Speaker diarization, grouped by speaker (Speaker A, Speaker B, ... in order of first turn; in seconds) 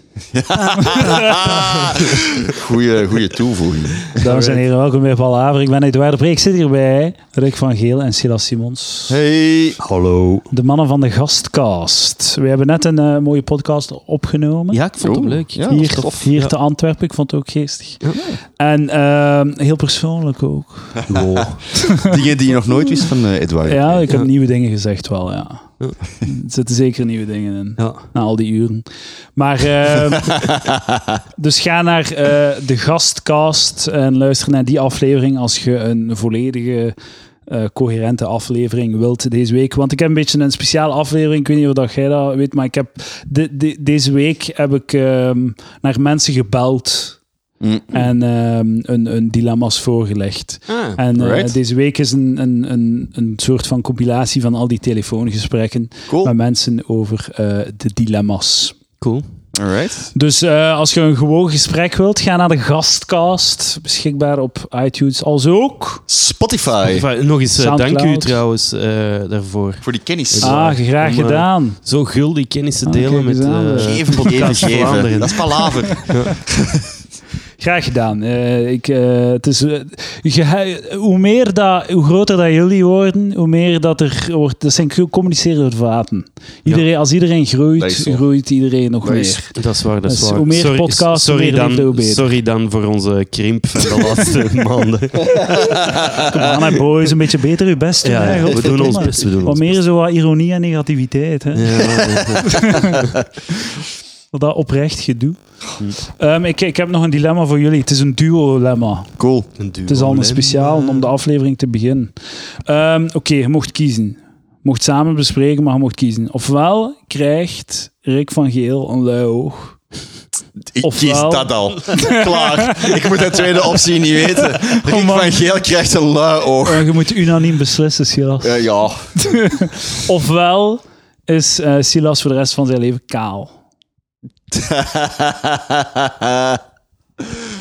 Speaker A: 0.3-4.0, 9.1-9.8, 15.0-16.3, 22.0-24.0, 30.4-31.2, 47.6-48.1, 51.1-51.5, 56.1-56.3, 59.5-60.1, 66.1-67.0, 69.8-70.7, 73.8-76.9, 87.8-88.2, 89.0-89.3, 95.6-96.2, 98.7-99.1, 102.0-102.6, 109.2-109.5, 120.7-126.9, 128.4-129.1, 134.5-136.6
Speaker B: 0.8-1.2, 4.2-9.2, 10.5-14.8, 15.7-18.0, 18.6-21.0, 23.6-28.8, 29.4-30.4, 31.4-36.9, 37.5-47.2, 47.9-58.8, 60.1-66.0, 67.6-68.4, 70.4-71.8, 72.8-74.8, 77.6-89.5, 90.1-92.2, 96.3-101.8, 102.6-102.9, 104.3-105.4, 106.0-109.2, 109.9-112.1, 112.7-119.8, 120.8-122.9, 124.4-125.4, 126.6-128.6, 129.2-133.5
Speaker C: 0.9-2.2, 4.1-4.6, 9.8-10.5, 14.7-16.5, 18.0-18.4, 21.1-21.7, 27.8-28.1, 50.7-51.0, 59.0-59.2, 66.8-76.3, 89.5-95.8, 98.0-99.8, 101.5-103.2, 109.6-111.1